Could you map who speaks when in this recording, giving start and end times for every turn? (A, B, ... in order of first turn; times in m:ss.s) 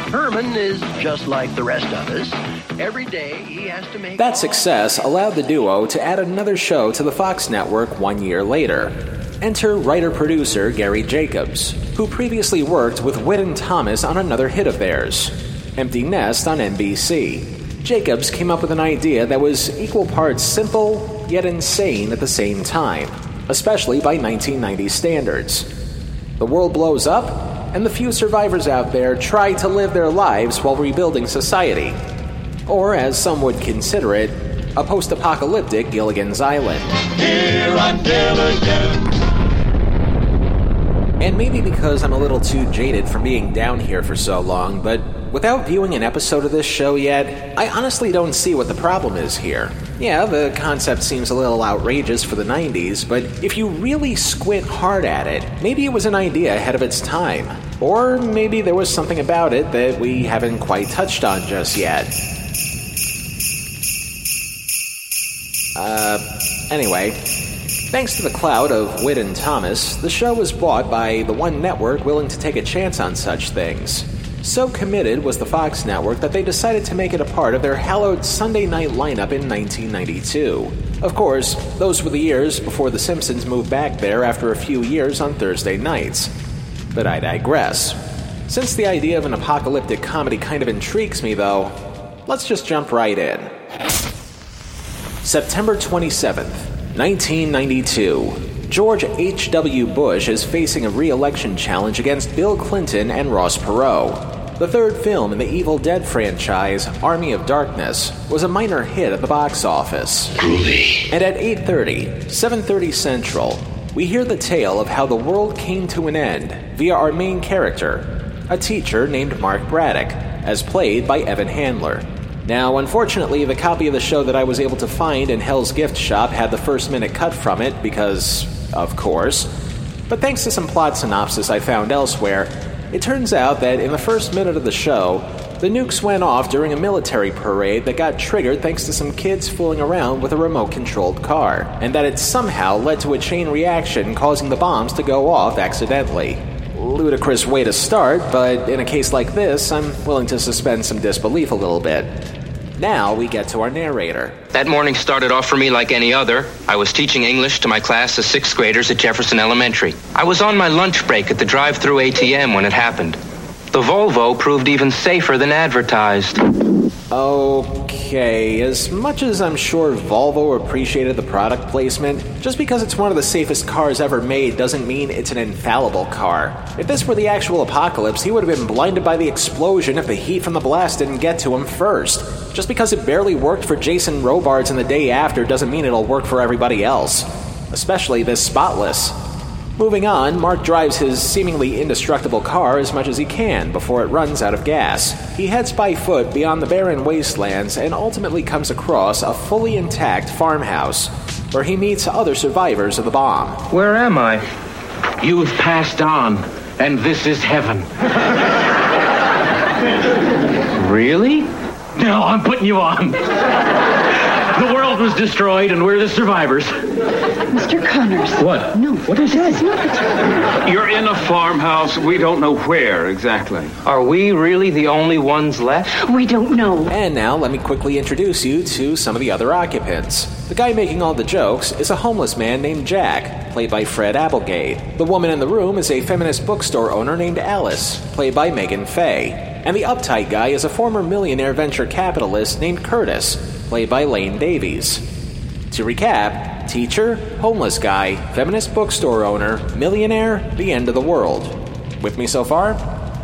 0:00.6-0:01.8 A
0:02.9-0:04.2 A
0:04.2-0:25.7 B
0:26.4-0:32.0 B
0:32.7-0:36.9 B
0:41.2-1:02.1 B
1:05.8-1:07.2 B
1:07.9-1:26.3 B
1:26.9-1:31.8 B
1:32.3-1:33.5 B
1:35.2-1:50.4 B
1:51.1-2:09.5 B
2:10.1-2:34.4 B
2:34.5-2:43.2 C
2:43.7-2:46.4 C
2:47.1-3:09.2 B
3:09.8-3:23.6 B
3:23.7-3:24.4 C
3:25.2-3:27.9 D
3:30.8-3:31.5 C
3:32.0-3:33.2 D
3:34.5-3:36.7 D
3:37.5-3:40.0 E
3:38.4-3:39.5 D
3:40.6-3:43.7 F
3:43.8-3:45.9 C
3:46.0-3:46.9 E
3:46.9-4:05.0 B
4:05.7-4:12.8 B